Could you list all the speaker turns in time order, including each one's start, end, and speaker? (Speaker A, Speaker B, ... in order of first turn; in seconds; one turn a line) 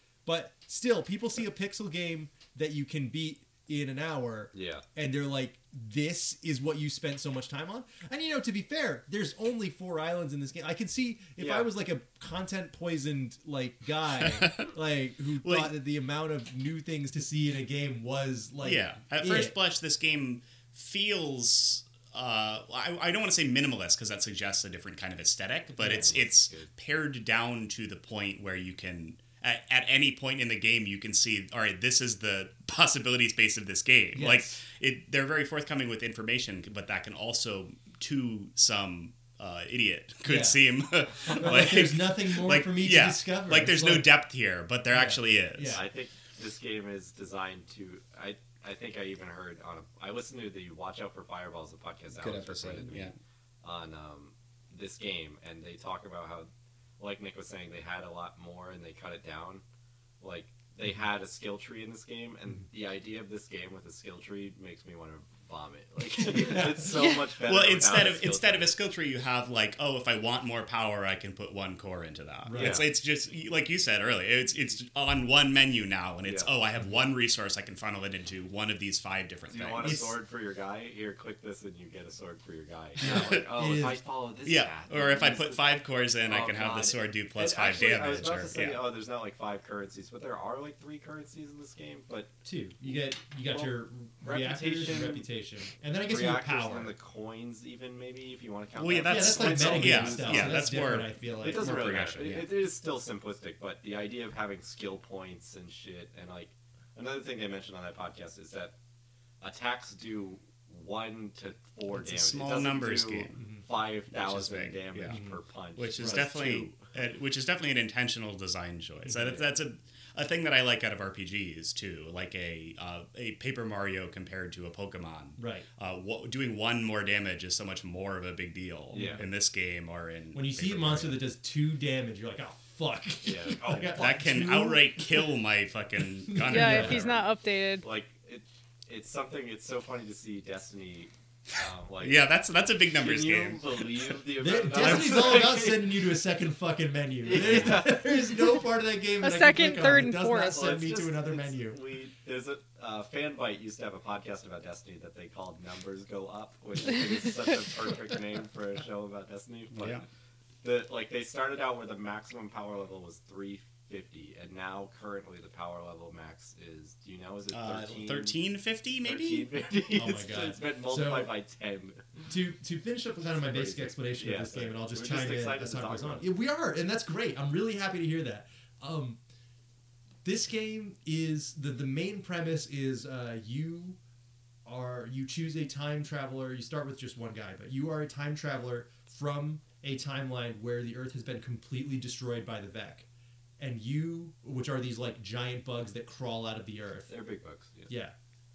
Speaker A: 0.2-19.6
Speaker B: 4.5-4.8
Speaker B: 11.4-11.7
Speaker C: 15.4-15.7
Speaker C: 18.6-45.8
Speaker B: 25.8-26.7
Speaker A: 25.8-26.1
Speaker A: 34.1-34.6
Speaker A: 40.2-40.6
Speaker A: 41.2-44.1
Speaker A: 44.9-45.9
Speaker B: 45.7-59.6
Speaker C: 52.2-53.1
Speaker B: 60.2-68.8
Speaker C: 67.3-80.0
Speaker A: 72.5-72.8
Speaker B: 72.5-72.9
Speaker B: 76.2-76.5
Speaker B: 79.5-92.3
Speaker A: 79.8-80.2
Speaker A: 83.0-84.0
Speaker C: 83.0-83.4
Speaker C: 84.4-88.8
Speaker A: 92.4-96.9
Speaker B: 93.4-95.3
Speaker B: 96.0-100.8
Speaker C: 98.7-102.5
Speaker A: 99.0-102.0
Speaker B: 101.4-108.7
Speaker B: 109.4-116.9
Speaker C: 111.9-113.4
Speaker A: 113.3-113.7
Speaker C: 114.1-115.2
Speaker A: 115.1-115.4
Speaker C: 115.7-131.2
Speaker A: 116.0-116.3
Speaker B: 119.2-119.5
Speaker A: 125.4-125.7
Speaker A: 128.9-129.2
Speaker B: 128.9-129.2
Speaker A: 130.3-135.3
Speaker B: 133.2-134.1
Speaker C: 133.9-137.2
Speaker A: 136.3-137.0
Speaker D: 136.4-137.8
Speaker B: 136.9-137.2
Speaker B: 137.8-142.2
Speaker C: 142.0-143.9
Speaker B: 142.9-146.1
Speaker A: 144.4-151.8
Speaker B: 147.2-148.2
Speaker D: 149.2-150.7
Speaker B: 150.4-160.0
Speaker C: 159.7-160.0
Speaker B: 160.6-168.4
Speaker C: 167.5-169.5
Speaker B: 169.0-172.2
Speaker A: 169.9-171.3
Speaker A: 172.3-179.2
Speaker B: 173.2-176.3
Speaker A: 180.2-184.0
Speaker A: 184.6-193.1
Speaker A: 193.6-197.1
Speaker B: 197.1-197.9
Speaker A: 197.9-198.1